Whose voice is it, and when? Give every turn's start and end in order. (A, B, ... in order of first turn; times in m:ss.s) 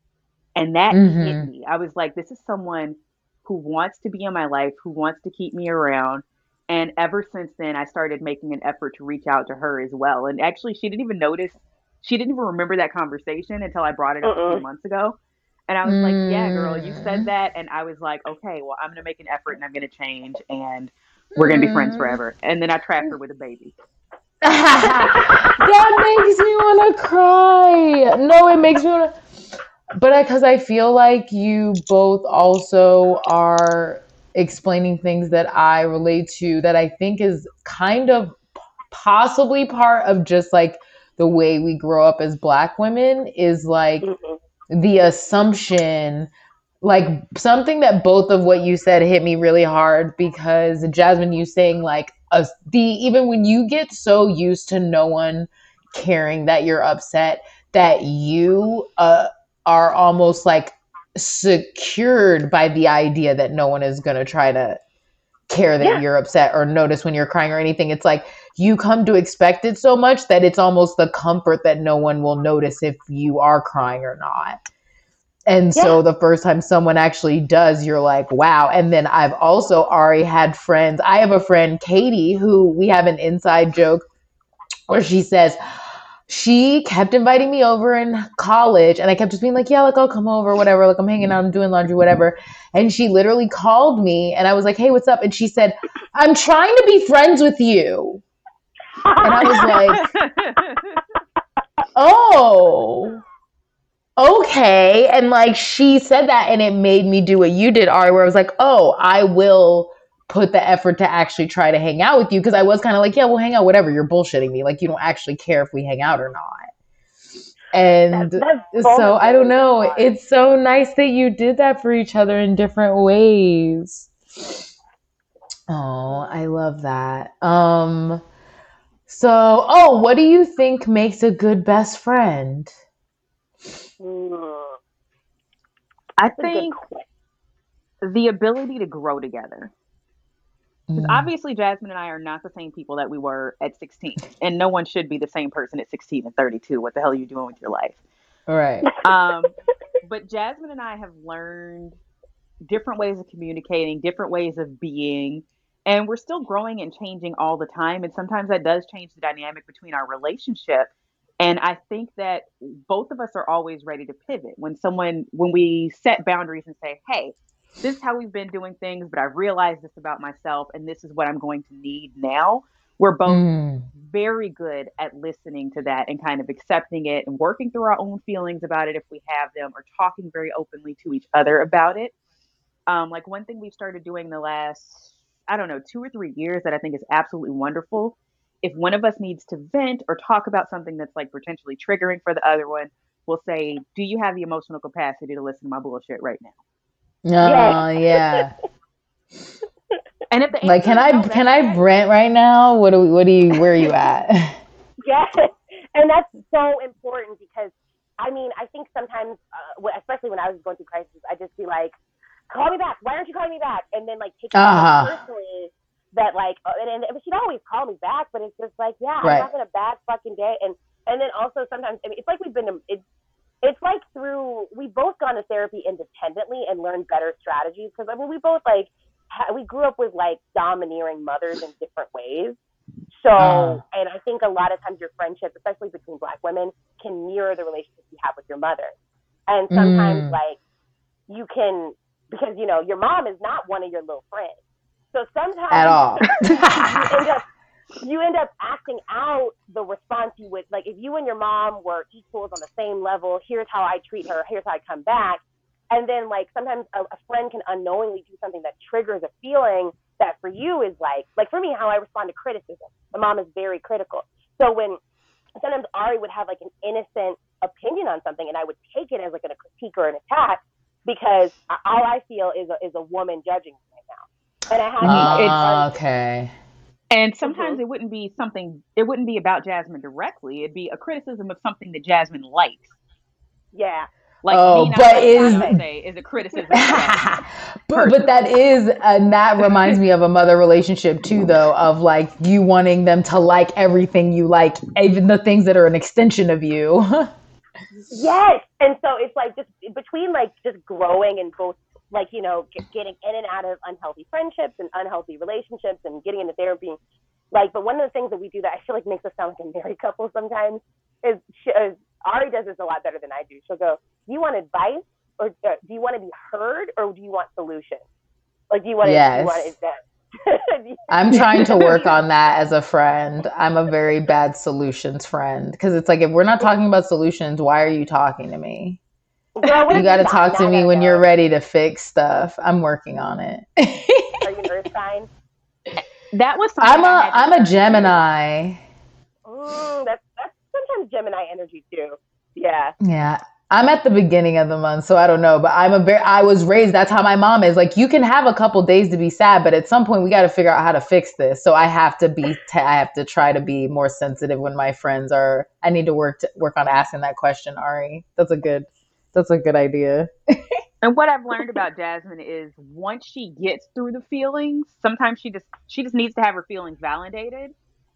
0:00.6-0:23.8 A
0:00.9-0:01.5 B
0:14.2-0:14.6 C
0:15.8-0:17.3 B
0:21.4-0:22.2 B
0:24.4-0:29.1 B
0:24.9-0:25.4 C
0:30.0-0:44.1 B
0:44.0-0:44.4 C
0:44.7-0:46.3 B
0:46.8-1:04.8 B
1:05.5-1:14.6 B
1:15.5-1:24.1 B
1:24.9-1:25.6 B
1:26.3-1:38.2 B
1:39.0-1:40.0 C
1:39.2-1:40.0 B
1:39.4-1:41.0 A
1:42.0-1:43.2 B
1:44.2-1:56.7 B
1:57.7-2:04.6 B
1:58.1-2:00.1 C
2:05.7-2:08.2 B
2:06.1-2:06.3 C
2:09.1-2:12.7 B
2:14.0-2:14.8 C
2:16.2-2:16.8 A
2:16.3-2:17.0 C
2:18.0-2:19.7 A
2:20.9-2:21.3 B
2:21.0-2:28.0 A
2:28.5-2:28.9 B
2:29.0-2:32.0 A
2:32.7-2:40.9 A
2:41.4-2:53.4 A
2:53.3-2:53.9 B
2:54.0-3:02.1 A
3:02.9-3:16.6 A
3:17.3-3:18.5 B
3:17.4-3:18.4 C
3:20.3-3:21.8 A
3:20.6-3:24.6 B
3:25.0-3:32.0 C
3:32.5-3:43.0 C
3:34.6-3:35.1 B
3:43.6-3:52.6 C
3:53.1-3:58.9 C
3:53.4-3:53.8 B
3:59.5-4:00.6 C
3:59.7-4:00.4 B
4:01.3-4:04.6 C
4:05.1-4:07.4 C
4:05.7-4:07.3 B
4:08.0-4:25.0 C
4:25.6-4:35.9 C
4:35.0-4:35.6 A
4:35.0-4:36.5 B
4:37.1-4:43.0 A
4:37.4-4:37.8 C
4:43.7-4:44.1 C
4:44.4-4:47.2 A
4:44.5-4:45.8 B
4:45.2-4:45.8 C
4:46.7-4:57.3 B
4:47.9-4:48.3 A
4:58.1-5:07.0 C
5:07.5-5:18.0 C
5:18.7-5:22.1 C
5:19.0-5:19.7 B
5:21.1-5:29.0 B
5:21.3-5:22.0 A
5:29.6-5:31.3 C
5:29.6-5:30.0 A
5:29.9-5:34.4 B
5:34.4-5:35.3 C
5:36.3-5:38.2 A
5:36.8-5:38.8 B
5:39.5-5:43.0 C
5:43.0-6:00.3 B
6:01.0-6:07.7 A